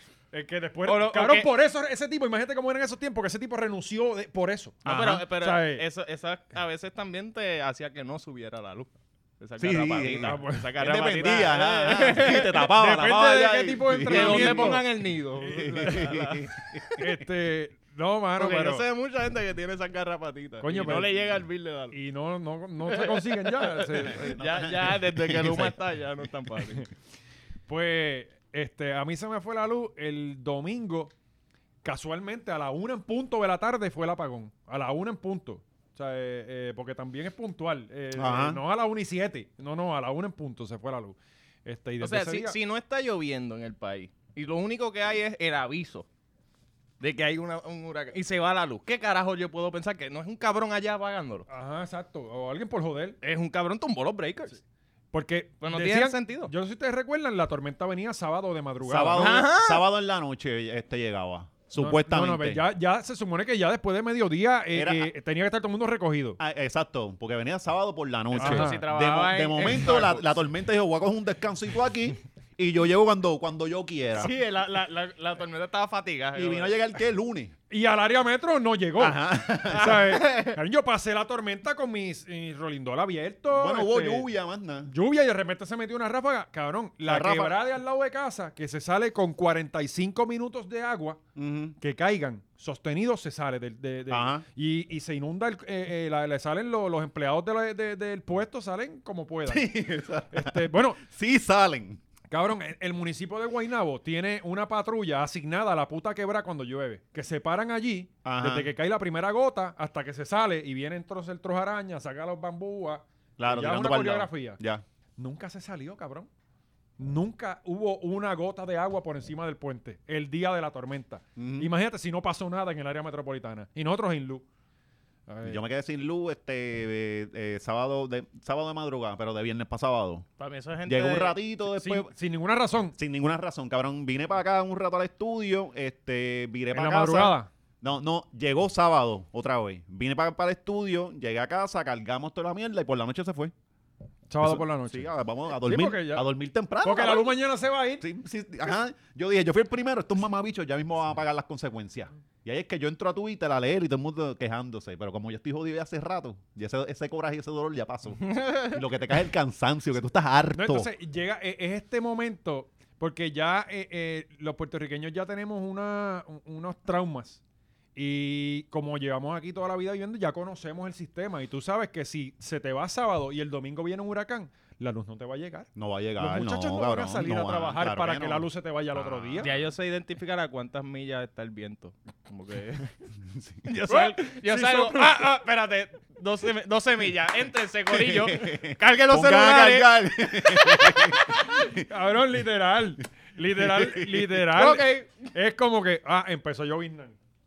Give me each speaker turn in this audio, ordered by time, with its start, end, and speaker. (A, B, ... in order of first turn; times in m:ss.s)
0:00.3-0:04.8 A
0:00.8-0:01.5 B
0:04.8-0:05.2 C
0:04.8-0:12.7 B
0:05.4-0:05.8 A
0:09.6-0:14.8 C
0:10.1-0:10.7 A
0:12.6-0:14.8 A
0:14.0-0:16.5 B
0:15.4-0:17.0 C
0:15.5-0:16.1 A
0:17.0-0:18.8 A
0:18.4-0:22.0 B
0:20.6-0:21.1 A
0:21.9-0:24.3 A
0:22.9-0:26.9 B
0:24.1-0:25.7 C
0:27.7-0:31.1 A
0:31.8-0:42.6 A
0:38.2-0:38.6 C
0:42.0-0:46.1 B
0:47.0-0:51.5 B
0:51.5-0:53.2 A
0:53.2-0:54.6 B
0:55.1-0:59.4 A
0:55.6-0:56.5 B
0:58.8-1:02.6 C
0:59.2-0:59.8 B
1:01.8-1:06.4 A
1:04.7-1:05.1 C
1:06.4-1:14.3 C
1:08.3-1:10.4 B
1:08.4-1:08.8 A
1:14.2-1:16.8 B
1:16.3-1:17.5 C
1:17.7-1:24.3 A
1:19.0-1:20.2 C
1:19.7-1:20.6 B
1:23.5-1:24.9 C
1:24.8-1:31.2 A
1:27.0-1:27.6 C
1:31.4-1:31.8 C
1:31.8-1:39.7 A
1:34.1-1:34.4 C
1:39.5-1:42.0 C
1:40.3-1:41.0 A
1:42.3-1:54.6 A
1:48.2-1:48.7 C
1:53.4-1:54.8 C
1:55.2-1:56.3 A
1:57.0-2:04.4 A
2:01.4-2:01.7 C
2:05.3-2:05.6 A
2:05.4-2:10.2 C
2:10.4-2:11.4 B
2:10.9-2:12.1 C
2:11.8-2:13.0 A
2:13.0-2:23.5 C
2:16.7-2:17.5 A
2:24.3-2:26.3 A
2:24.4-2:27.4 C
2:26.8-2:28.0 A
2:28.0-2:40.9 C
2:38.2-2:38.8 B
2:40.5-2:47.4 A
2:47.9-2:59.5 A
2:55.8-2:59.6 C
2:59.4-3:02.9 B
3:03.3-3:03.7 C
3:03.6-3:11.2 B
3:03.9-3:05.2 A
3:07.9-3:11.8 C
3:11.4-3:17.2 A
3:13.6-3:14.4 C
3:14.5-3:15.3 B